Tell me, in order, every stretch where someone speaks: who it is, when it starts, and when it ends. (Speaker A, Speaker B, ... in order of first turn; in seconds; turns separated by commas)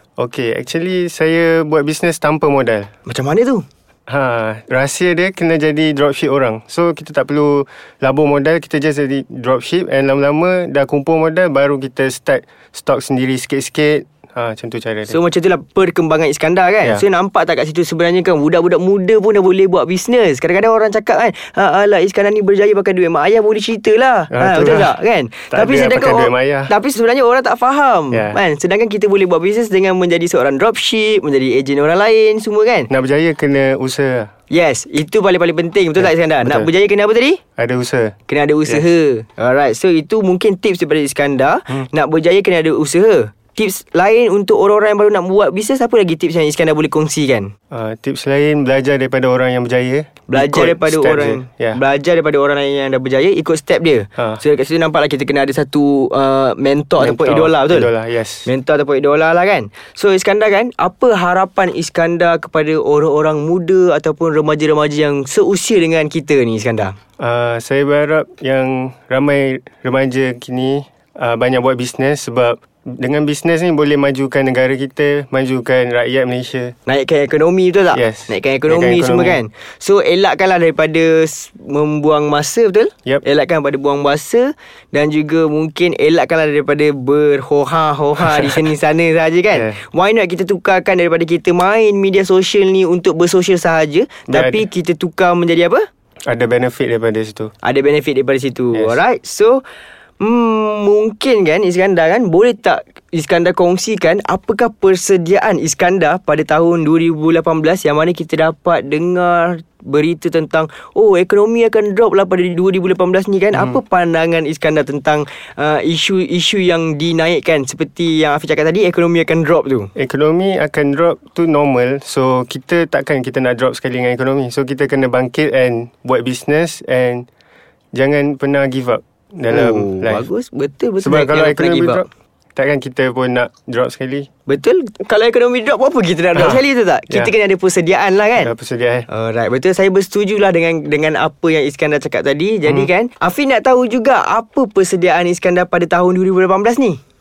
Speaker A: 0.2-2.9, Speaker B: 3.0-3.6, Speaker A: 4.1-15.2, Speaker B: 15.1-32.9, Speaker A: 24.3-24.9, Speaker A: 25.5-26.7, Speaker A: 28.1-28.4, Speaker A: 32.9-34.3, Speaker B: 34.5-37.4, Speaker A: 37.6-38.1, Speaker B: 38.3-47.5, Speaker A: 47.7-51.8, Speaker B: 50.3-57.9, Speaker A: 57.0-58.5, Speaker B: 58.5-66.9, Speaker A: 67.2-76.7, Speaker B: 76.8-95.8, Speaker A: 77.9-79.4, Speaker A: 89.5-89.8, Speaker A: 94.3-94.6, Speaker A: 96.3-97.5, Speaker B: 97.6-99.6, Speaker A: 98.7-99.0, Speaker B: 100.2-119.9, Speaker A: 119.9-127.3, Speaker A: 127.9-130.2, Speaker B: 129.5-132.1, Speaker A: 131.0-132.0, Speaker A: 132.6-134.3, Speaker B: 134.5-138.5, Speaker A: 136.3-137.3, Speaker A: 138.4-139.1, Speaker B: 139.1-147.0